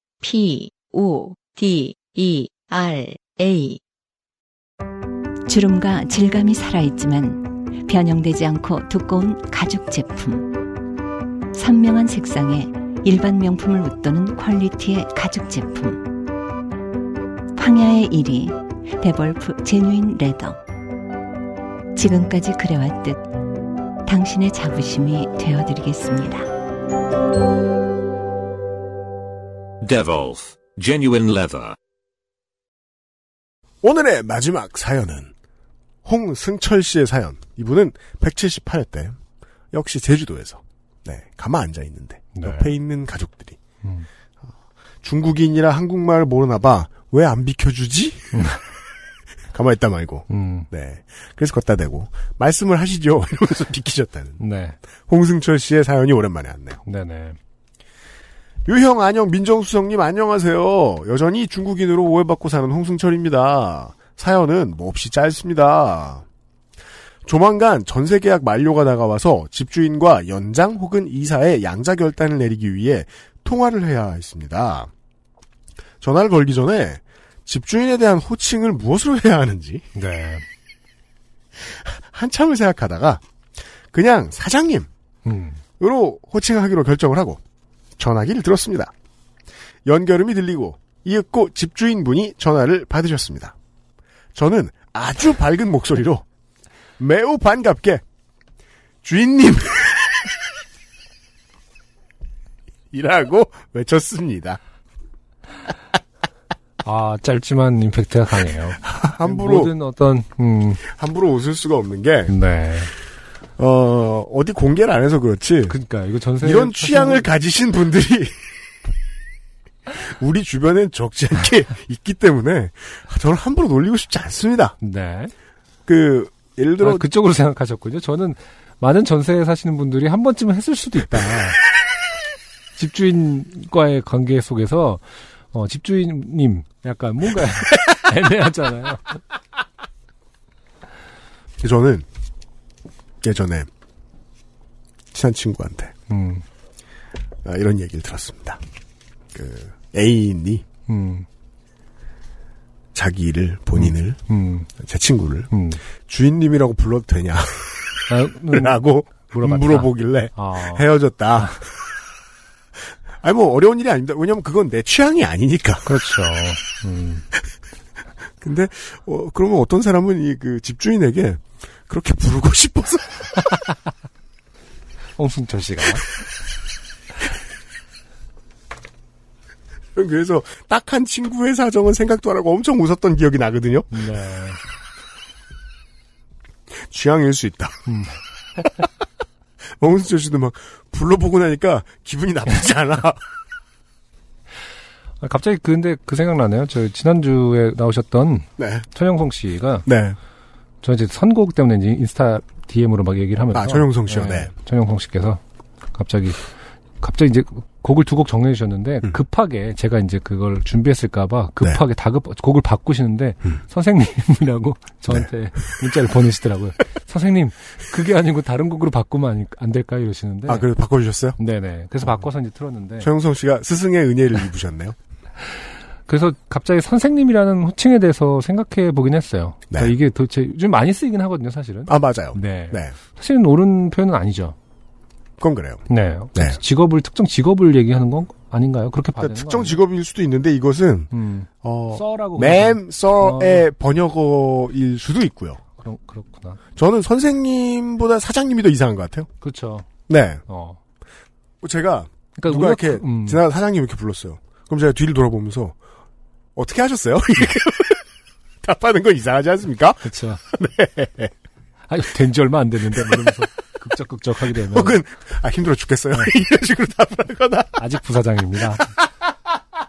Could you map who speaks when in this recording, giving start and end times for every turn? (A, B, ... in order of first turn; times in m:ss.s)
0:00.2-0:03.8 A
0:05.5-0:10.5 B
0:11.5-0:16.0 B
0:17.6-0:20.6 B
0:22.0-0:23.2 B
0:24.0-0:26.5 B
0:29.8-0:31.8 C
0:33.8-0:35.3 D
0:36.0-0:39.2 D
0:39.7-0:43.6 D
0:42.4-0:42.7 E
0:45.0-0:48.4 D
0:48.3-0:48.6 E
0:49.5-0:54.4 D
0:50.3-0:50.7 E
0:54.4-0:54.8 E
0:55.1-0:56.8 D
0:56.8-0:57.4 E
0:58.7-1:06.2 D
1:07.2-1:14.9 D
1:16.0-1:19.9 D
1:20.0-1:20.4 E
1:21.6-1:23.2 D
1:23.9-1:24.9 D
1:25.3-1:25.6 E
1:25.8-1:27.4 D
1:28.0-1:28.9 D
1:29.9-1:33.6 D
1:34.4-1:36.2 D
1:37.0-1:38.0 D
1:39.0-1:40.3 D
1:42.9-1:44.6 D
1:46.8-1:50.8 E
1:48.8-1:49.7 D
1:50.8-1:52.3 D
1:52.3-1:52.9 E
1:53.6-1:55.8 D
1:55.7-1:57.3 E
1:56.4-1:58.4 D
1:59.9-2:04.8 D
2:04.8-2:05.3 E
2:05.9-2:07.1 D
2:06.8-2:11.6 E
2:12.8-2:19.2 E
2:21.6-2:22.1 D
2:23.2-2:23.7 D
2:25.1-2:25.9 D
2:26.1-2:26.4 E
2:27.4-2:28.6 D
2:29.3-2:30.6 D
2:30.9-2:31.3 E
2:32.9-2:34.2 D
2:33.8-2:34.7 E
2:34.8-2:35.5 D
2:35.5-2:35.8 E
2:36.1-2:41.7 D
2:38.1-2:41.6 E
2:43.2-2:46.0 D
2:45.8-2:47.3 E
2:48.4-2:53.3 D
2:55.2-2:56.1 E
3:00.0-3:03.9 D
3:03.9-3:04.6 E
3:06.7-3:07.8 D
3:07.9-3:08.6 E
3:09.8-3:13.2 D
3:15.2-3:19.9 E
3:18.6-3:18.9 D
3:19.9-3:20.2 D
3:20.8-3:25.4 E
3:23.5-3:24.5 D
3:25.9-3:26.5 E
3:27.0-3:40.7 E
3:40.5-3:41.4 D
3:41.4-3:43.1 E
3:43.0-3:45.0 D
3:46.1-3:54.6 E
3:51.9-3:53.0 D
3:55.4-3:55.8 D
3:55.9-3:59.8 E
3:56.4-3:56.6 D
3:59.2-4:05.6 D
4:01.1-4:03.7 E
4:05.8-4:06.6 E
4:06.8-4:09.3 D
4:09.4-4:09.9 E
4:10.1-4:10.4 D
4:10.5-4:10.8 E
4:11.6-4:15.8 D
4:12.4-4:13.4 E
4:16.6-4:18.0 D
4:18.6-4:21.3 D
4:20.0-4:20.4 E
4:21.9-4:25.0 E
4:22.9-4:23.4 D
4:24.5-4:27.9 D
4:27.8-4:28.9 E